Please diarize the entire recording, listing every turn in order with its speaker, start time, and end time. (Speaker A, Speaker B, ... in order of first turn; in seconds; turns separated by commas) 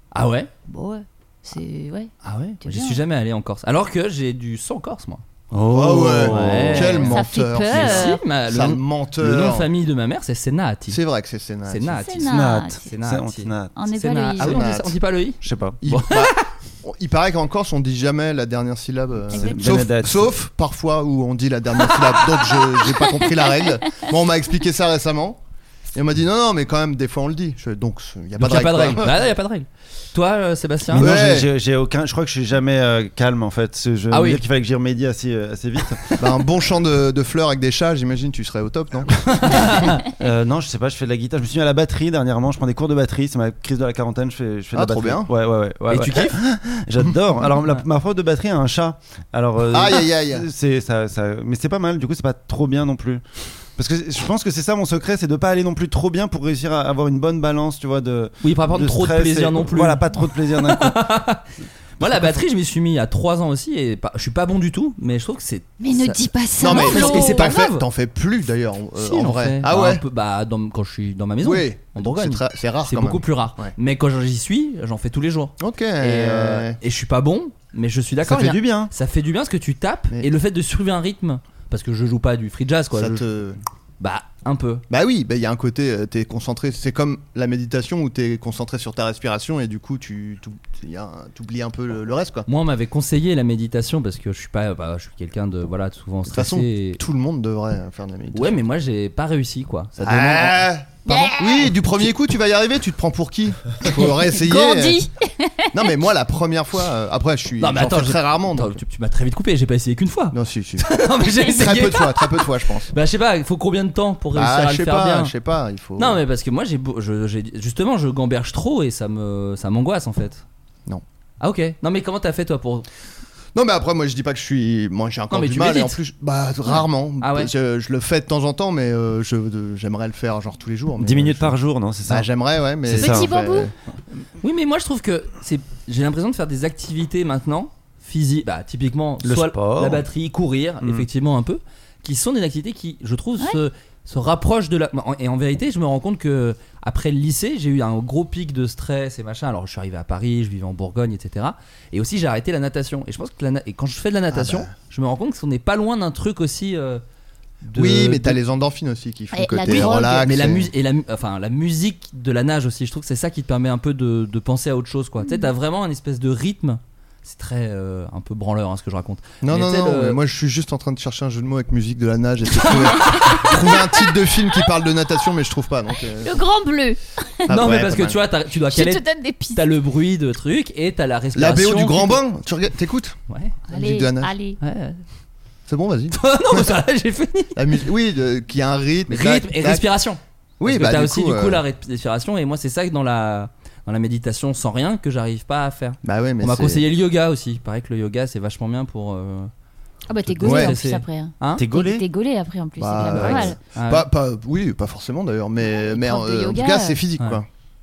Speaker A: 0.1-0.5, Speaker B: 0.7-3.0, Speaker A: 2.2-5.2, Speaker C: 5.5-7.0, Speaker D: 5.7-9.7, Speaker A: 6.2-7.2, Speaker B: 7.0-8.2, Speaker A: 7.7-11.0, Speaker D: 10.9-12.0, Speaker A: 11.6-16.4, Speaker B: 12.0-12.8, Speaker C: 12.2-13.7, Speaker B: 13.8-14.7, Speaker D: 14.4-14.9, Speaker C: 15.4-15.8, Speaker D: 15.8-25.4, Speaker B: 19.3-19.6, Speaker C: 19.3-20.3, Speaker D: 25.9-29.2, Speaker A: 28.4-31.1, Speaker C: 30.9-36.2, Speaker D: 30.9-31.5, Speaker A: 34.1-34.4, Speaker D: 36.2-39.2, Speaker A: 39.3-40.0, Speaker C: 40.0-53.2, Speaker D: 44.7-45.3, Speaker A: 45.9-46.4, Speaker D: 49.7-50.5, Speaker C: 53.8-61.0, Speaker A: 58.4-61.4, Speaker A: 62.0-67.8, Speaker C: 62.0-62.3, Speaker B: 65.8-67.5, Speaker D: 66.6-70.0, Speaker A: 69.0-83.2, Speaker D: 71.4-73.7, Speaker D: 75.6-76.8, Speaker C: 78.2-78.9, Speaker D: 82.9-83.6, Speaker A: 84.0-84.8, Speaker D: 84.9-92.5, Speaker A: 92.5-97.0, Speaker D: 96.3-98.6, Speaker A: 98.3-101.2, Speaker D: 100.0-105.1, Speaker B: 101.0-101.7, Speaker B: 103.9-105.9, Speaker D: 105.7-108.8, Speaker A: 107.6-115.3, Speaker D: 110.3-110.9, Speaker D: 111.4-112.9, Speaker D: 114.3-116.2, Speaker A: 116.0-120.4, Speaker A: 121.4-122.9, Speaker D: 123.5-131.5, Speaker A: 125.3-126.0, Speaker A: 126.7-127.5, Speaker C: 131.0-132.3, Speaker D: 132.1-133.7, Speaker C: 132.8-133.3, Speaker B: 133.0-133.7, Speaker A: 134.4-157.0, Speaker C: 139.2-140.1, Speaker C: 140.8-141.1, Speaker D: 154.3-154.7, Speaker A: 157.6-158.4, Speaker D: 157.7-160.7, Speaker B: 159.3-160.2, Speaker A: 159.6-170.2, Speaker B: 165.2-165.5, Speaker D: 169.4-176.4, Speaker A: 172.6-173.5, Speaker B: 173.0-174.1, Speaker B: 176.2-177.5, Speaker D: 177.4-178.2, Speaker A: 177.5-182.2, Speaker B: 178.7-179.7, Speaker D: 181.3-183.2, Speaker A: 183.3-183.6, Speaker B: 183.7-184.6, Speaker D: 183.7-184.3, Speaker A: 184.6-185.0, Speaker D: 185.7-186.7, Speaker A: 186.1-187.7, Speaker D: 187.5-189.9, Speaker A: 189.1-199.5, Speaker D: 190.6-191.6, Speaker D: 196.0-196.8, Speaker B: 200.1-203.6, Speaker A: 200.4-201.6, Speaker D: 200.4-200.7, Speaker C: 201.5-202.0, Speaker D: 202.8-207.5, Speaker A: 203.2-204.1, Speaker B: 205.8-207.0